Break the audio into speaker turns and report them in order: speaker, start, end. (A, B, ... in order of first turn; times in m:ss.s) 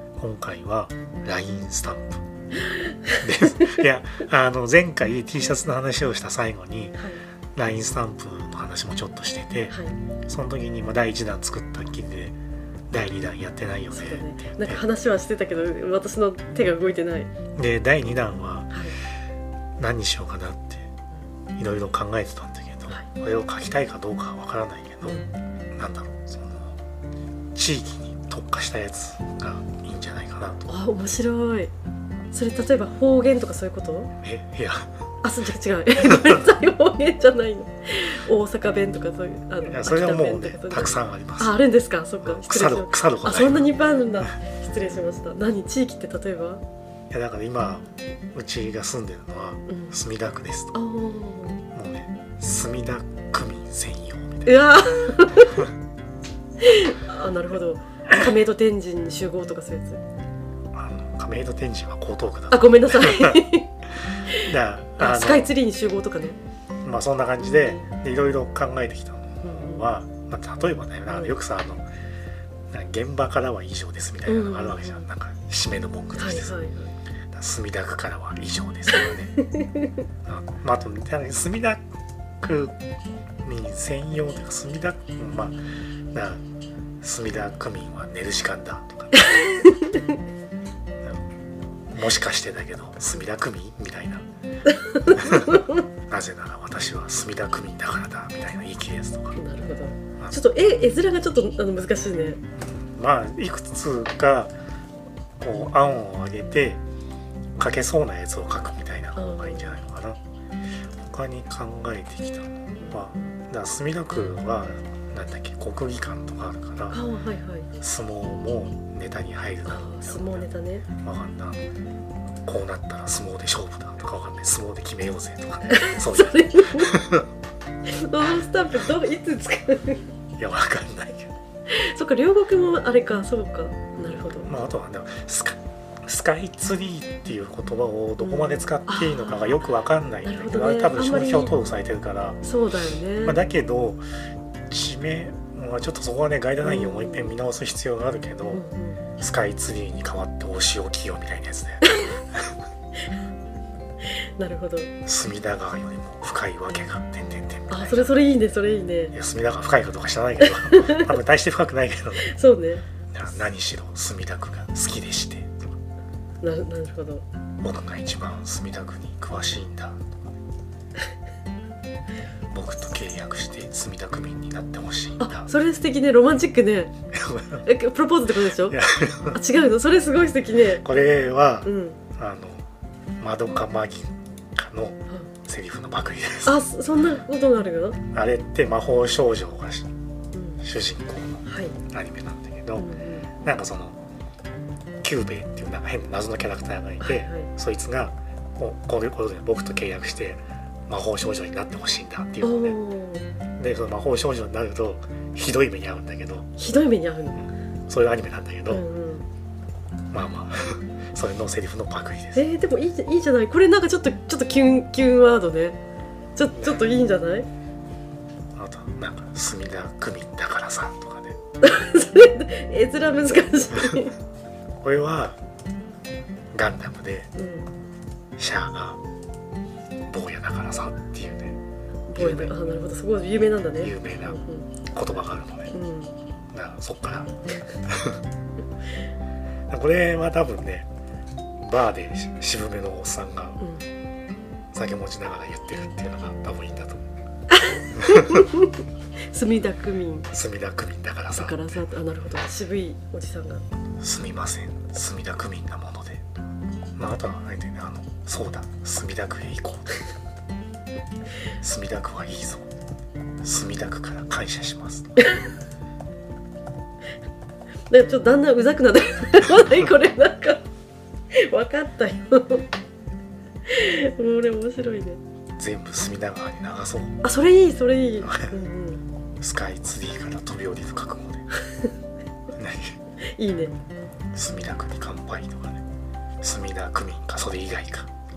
0:00.2-0:02.2 A
0:03.1-0:03.7 B
0:03.2-0:12.4 A
0:09.7-0:10.0 B
0:12.9-0:14.8 A
0:13.9-0:17.3 B
0:17.6-0:18.7 A
0:19.8-0:20.9 A
0:21.6-0:25.2 A
0:25.0-0:25.3 B
0:25.8-0:26.8 A
0:27.5-0:30.7 A
0:30.7-0:31.7 B
0:32.3-0:34.1 B
0:34.2-0:34.9 A
0:35.2-0:46.6 B
0:36.0-0:36.4 A
0:39.7-0:41.6 A
0:42.2-0:43.7 A
0:47.1-0:50.8 A
0:50.7-0:51.6 B
0:51.7-0:54.7 A
0:54.5-0:55.7 B
0:56.6-1:00.0 B
1:00.7-1:03.4 A
1:02.5-1:03.7 B
1:04.2-1:06.4 B
1:04.3-1:05.5 A
1:06.8-1:11.8 A
1:07.4-1:07.8 B
1:09.4-1:09.8 B
1:12.7-1:16.6 A
1:14.3-1:15.1 B
1:16.2-1:16.9 B
1:17.3-1:19.4 A
1:18.9-1:19.9 B
1:20.2-1:21.8 A
1:22.4-1:22.8 A
1:23.4-1:25.6 A
1:26.1-1:26.4 A
1:27.0-1:29.3 A
1:29.2-1:30.1 B
1:31.9-1:34.2 A
1:34.7-1:35.8 B
1:35.1-1:39.4 A
1:39.4-1:42.4 B
1:42.6-1:44.6 A
1:45.4-1:46.8 A
1:47.6-1:50.2 A
1:49.2-1:49.8 B
1:51.0-1:57.0 A
1:52.8-1:53.3 B
1:56.9-1:57.7 B
1:57.8-2:00.5 A
1:59.7-2:00.9 B
2:01.0-2:01.7 A
2:02.5-2:07.3 A
2:05.7-2:06.9 B
2:07.9-2:10.0 B
2:10.4-2:11.3 A
2:11.7-2:14.6 B
2:14.4-2:22.4 A
2:18.2-2:19.6 B
2:20.2-2:21.5 B
2:22.4-2:23.4 B
2:23.2-2:24.0 A
2:24.7-2:28.6 A
2:26.6-2:27.4 B
2:28.5-2:29.0 B
2:29.2-2:32.5 A
2:31.9-2:32.1 B
2:34.4-2:34.9 B
2:35.0-2:38.2 A
2:37.7-2:39.2 B
2:39.1-2:42.3 A
2:40.4-2:41.2 B
2:42.2-2:42.8 B
2:43.1-2:45.7 A
2:46.4-2:47.2 B
2:47.6-2:50.3 A
2:52.5-2:55.5 A
2:55.2-2:56.9 B
2:57.1-2:57.6 A
2:57.6-2:58.8 B
2:58.6-2:59.4 A
2:59.3-3:00.8 B
3:00.8-3:02.7 A
3:01.6-3:02.0 B
3:03.2-3:06.6 A
3:06.5-3:08.0 B
3:08.1-3:09.9 A
3:10.3-3:10.6 B
3:10.6-3:12.9 A
3:11.5-3:11.8 B
3:12.8-3:13.3 B
3:13.4-3:14.0 A
3:15.0-3:22.8 A
3:17.0-3:17.5 B
3:22.4-3:23.3 B
3:23.6-3:26.5 A
3:26.6-3:27.4 B
3:27.9-3:28.8 A
3:28.7-3:29.3 B
3:30.1-3:32.4 A
3:32.3-3:35.8 B
3:36.4-3:37.5 B
3:36.5-3:36.9 A
3:38.6-3:41.4 A
3:41.6-3:44.1 B
3:44.8-3:45.4 A
3:46.5-3:47.3 A
3:47.4-3:47.7 B
3:48.4-3:49.0 A
3:50.1-3:51.6 A
3:52.1-3:54.7 B
3:52.2-3:52.6 A
3:53.8-3:55.7 A
3:55.7-3:56.1 B
3:56.5-3:58.2 A
3:59.7-4:00.9 A
4:01.6-4:03.6 A
4:03.6-4:03.9 B
4:04.7-4:07.0 A
4:07.5-4:10.3 B
4:08.0-4:08.4 A
4:10.3-4:11.6 A
4:11.4-4:13.7 B
4:14.0-4:16.3 A
4:17.0-4:20.0 A
4:21.6-4:22.7 A
4:23.4-4:25.2 A
4:27.9-4:30.6 B
4:31.3-4:32.6 B
4:33.7-4:35.2 B
4:35.6-4:37.2 A
4:37.2-4:39.0 B
4:38.2-4:38.5 A
4:39.4-4:41.5 A
4:42.6-4:43.0 A
4:43.3-4:43.8 B
4:44.4-4:45.8 A
4:46.4-4:48.1 A